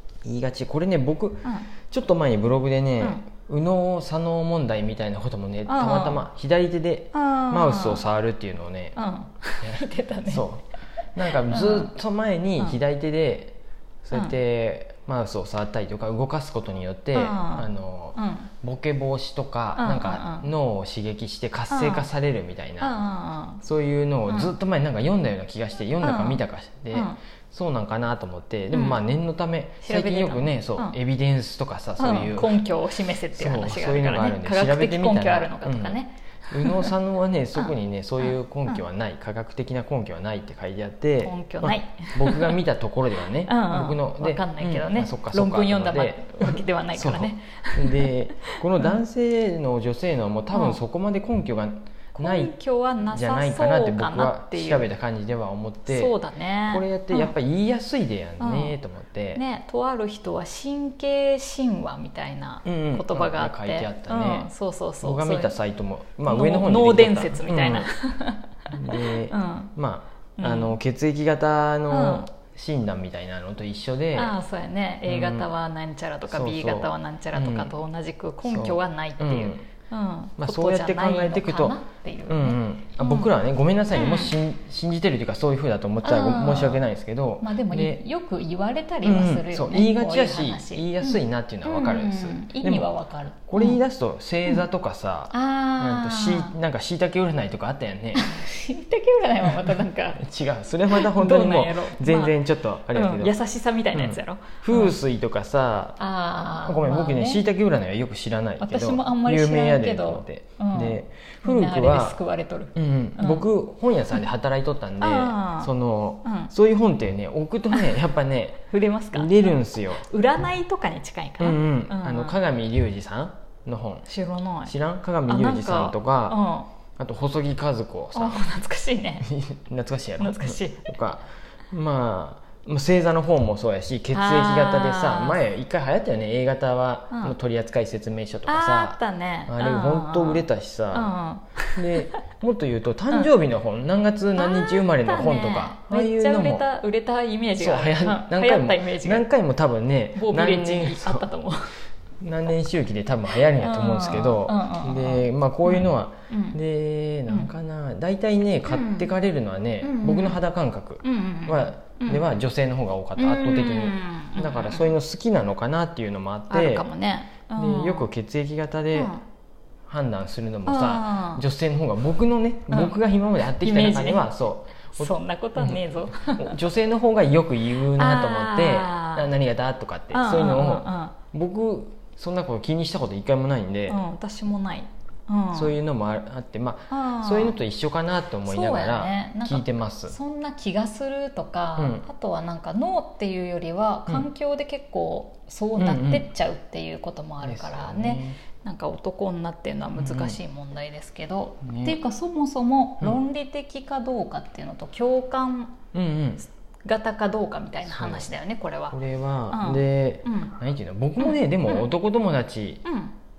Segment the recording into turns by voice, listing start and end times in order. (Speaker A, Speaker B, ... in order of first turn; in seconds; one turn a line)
Speaker A: 0.2-9.0
Speaker B: 5.7-6.2
Speaker B: 7.1-8.1
Speaker B: 9.0-10.5
Speaker A: 9.6-23.1
Speaker B: 11.3-11.9
Speaker B: 17.1-18.5
Speaker B: 19.8-20.5
Speaker B: 21.7-22.1
Speaker B: 22.8-23.6
Speaker A: 23.6-32.6
Speaker B: 24.3-24.5
Speaker B: 26.0-27.2
Speaker B: 28.7-29.0
Speaker B: 29.8-31.0
Speaker B: 32.0-36.9
Speaker A: 33.3-52.5
Speaker B: 37.5-38.8
Speaker B: 41.2-42.6
Speaker B: 43.4-49.0
Speaker B: 50.5-50.8
Speaker B: 52.1-54.9
Speaker A: 53.1-56.1
Speaker B: 55.9-57.3
Speaker A: 56.7-59.4
Speaker B: 58.4-58.8
Speaker B: 59.4-65.6
Speaker A: 62.6-64.5
Speaker A: 65.0-67.9
Speaker B: 66.2-69.7
Speaker A: 68.7-74.4
Speaker B: 70.4-70.8
Speaker B: 71.9-72.3
Speaker B: 74.2-83.3
Speaker A: 75.1-75.5
Speaker A: 76.3-77.7
Speaker A: 78.5-79.7
Speaker A: 80.4-88.0
Speaker B: 83.9-84.4
Speaker B: 86.0-86.8
Speaker B: 87.4-93.8
Speaker A: 89.0-92.9
Speaker A: 93.5-98.2
Speaker B: 95.3-96.5
Speaker B: 98.1-100.2
Speaker A: 99.5-103.3
Speaker B: 100.9-102.4
Speaker B: 102.9-105.0
Speaker A: 103.9-106.0
Speaker B: 106.0-107.4
Speaker A: 106.6-112.2
Speaker B: 108.6-113.5
Speaker A: 112.8-120.1
Speaker B: 115.0-115.7
Speaker B: 116.2-116.5
Speaker B: 117.7-118.0
Speaker B: 118.7-122.4
Speaker A: 121.4-124.1
Speaker B: 124.1-124.8
Speaker A: 124.7-126.4
Speaker B: 125.3-126.7
Speaker A: 127.0-128.5
Speaker B: 128.1-129.3
Speaker A: 129.2-141.2
Speaker B: 130.2-130.9
Speaker B: 134.1-135.4
Speaker B: 137.1-137.4
Speaker B: 138.5-142.1
Speaker A: 141.8-146.7
Speaker B: 144.4-149.3
Speaker A: 147.6-151.3
Speaker B: 150.1-151.8
Speaker A: 152.2-166.8
Speaker B: 153.5-156.6
Speaker B: 158.7-159.1
Speaker B: 159.8-160.4
Speaker B: 161.0-162.2
Speaker B: 163.2-164.9
Speaker B: 166.5-168.1
Speaker A: 167.6-169.1
Speaker B: 168.9-169.2
Speaker A: 169.9-184.0
Speaker B: 170.7-171.4
Speaker B: 172.7-173.0
Speaker B: 173.6-174.3
Speaker B: 174.9-176.6
Speaker B: 177.9-179.3
Speaker B: 180.1-181.2
Speaker B: 183.9-185.8
Speaker A: 185.5-190.2
Speaker B: 186.9-187.6
Speaker B: 188.5-205.8
Speaker A: 191.8-192.1
Speaker A: 195.8-196.3
Speaker A: 197.4-198.4
Speaker A: 200.0-200.4
Speaker A: 201.6-202.0
Speaker A: 205.9-206.4
Speaker B: 206.8-209.0
Speaker A: 207.8-208.3
Speaker A: 208.9-212.8
Speaker B: 209.5-210.6
Speaker B: 211.2-211.9
Speaker B: 212.8-213.2